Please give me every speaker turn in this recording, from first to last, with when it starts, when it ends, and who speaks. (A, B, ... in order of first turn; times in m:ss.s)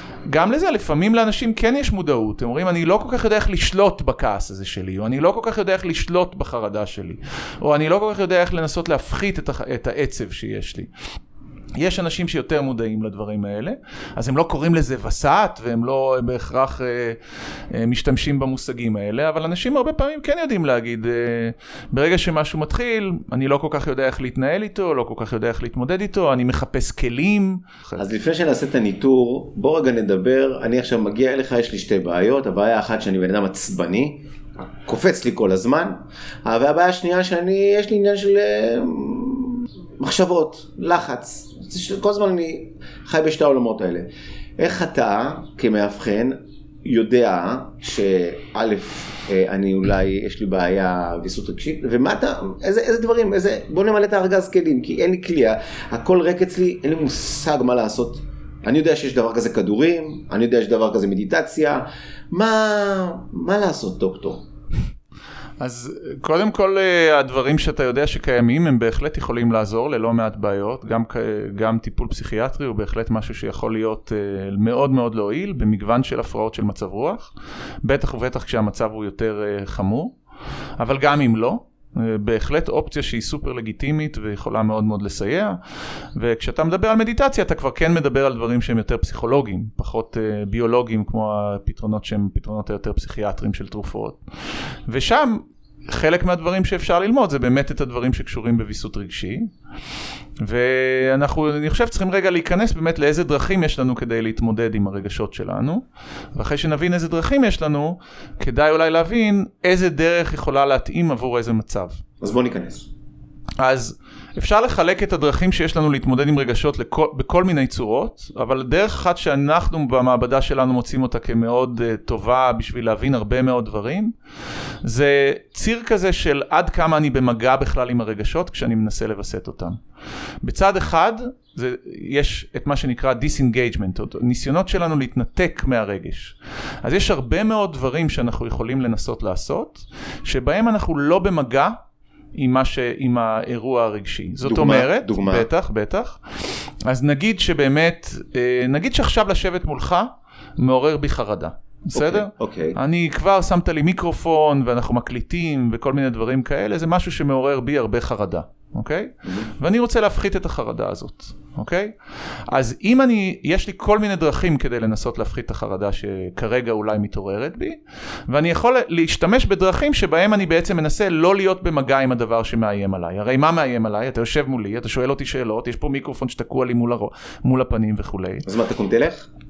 0:00.3-0:10.9 A
0:11.8-0:17.2 A
0:17.7-0:28.0 A
0:28.0-0:44.1 B
0:44.6-1:04.4 B
1:05.6-1:17.3 A
1:17.8-1:20.2 A
1:20.8-1:25.6 A
1:26.2-1:34.2 A
1:34.9-1:39.5 A
1:40.4-1:52.0 A
1:52.2-1:52.9 B
1:53.6-2:04.1 A
2:04.8-2:09.8 A
2:10.4-2:21.8 A
2:22.4-2:42.0 A
2:24.4-2:25.5 B
2:31.9-2:32.8 B
2:42.5-2:58.5 A
2:58.4-2:59.3 B